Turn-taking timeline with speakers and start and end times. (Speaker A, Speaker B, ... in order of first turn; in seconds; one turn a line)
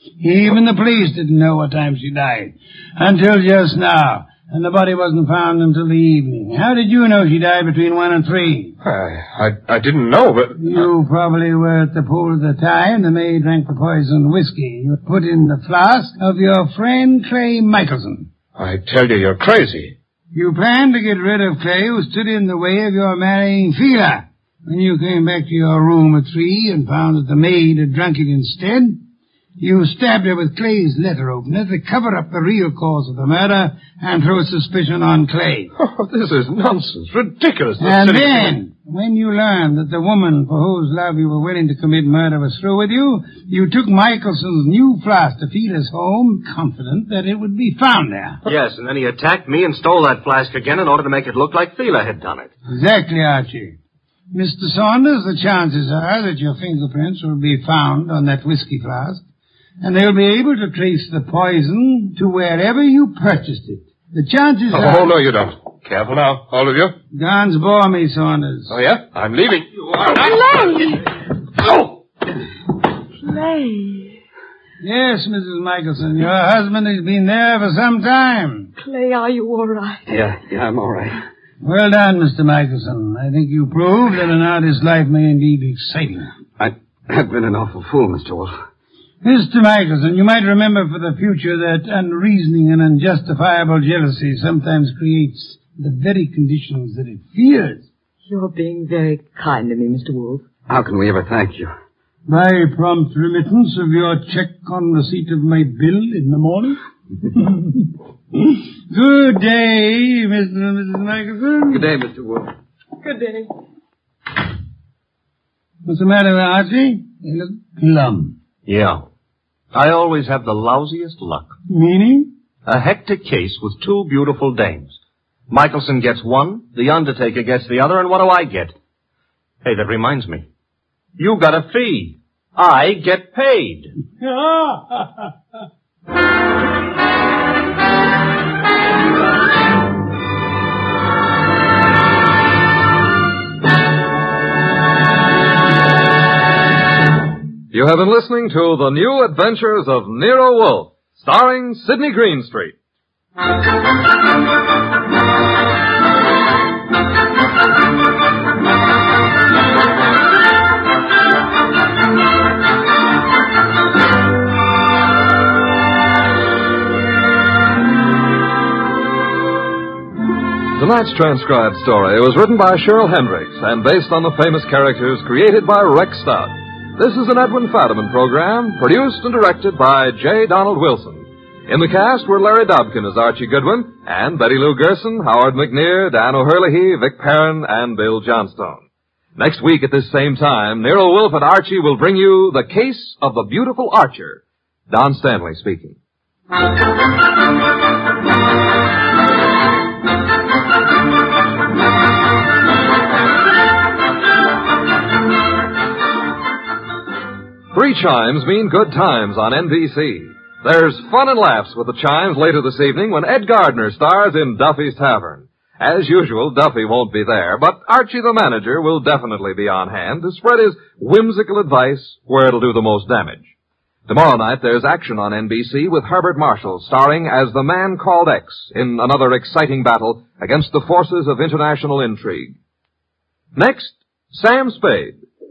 Speaker A: 0.2-8.8
Speaker B: 8.8-10.8
Speaker A: 10.6-18.3
Speaker B: 18.6-19.9
Speaker A: 20.3-29.0
Speaker A: 29.6-35.7
Speaker B: 35.8-38.5
Speaker A: 37.8-48.4
Speaker C: 48.5-52.5
Speaker A: 52.7-53.8
Speaker A: 54.3-59.2
Speaker A: 59.8-65.1
Speaker B: 64.7-67.0
Speaker A: 67.1-68.7
Speaker B: 68.7-70.6
Speaker D: 70.1-71.1
Speaker D: 73.2-74.2
Speaker A: 74.8-78.7
Speaker D: 78.8-80.0
Speaker E: 80.1-81.2
Speaker A: 81.6-86.3
Speaker E: 86.6-88.5
Speaker A: 89.2-97.8
Speaker D: 98.3-100.5
Speaker E: 100.7-101.7
Speaker A: 102.3-106.8
Speaker A: 107.3-111.9
Speaker E: 111.7-112.5
Speaker D: 113.0-113.5
Speaker A: 115.8-118.3
Speaker C: 118.7-119.0
Speaker C: 119.7-121.5
Speaker A: 121.7-122.3
Speaker C: 122.7-125.0
Speaker C: 125.5-128.7
Speaker C: 129.6-130.5
Speaker C: 131.2-133.9
Speaker A: 134.2-135.1
Speaker F: 147.7-152.8
Speaker F: 170.8-188.8
Speaker F: 189.4-196.0
Speaker F: 207.7-223.5
Speaker F: 224.1-232.6
Speaker F: 233.5-235.2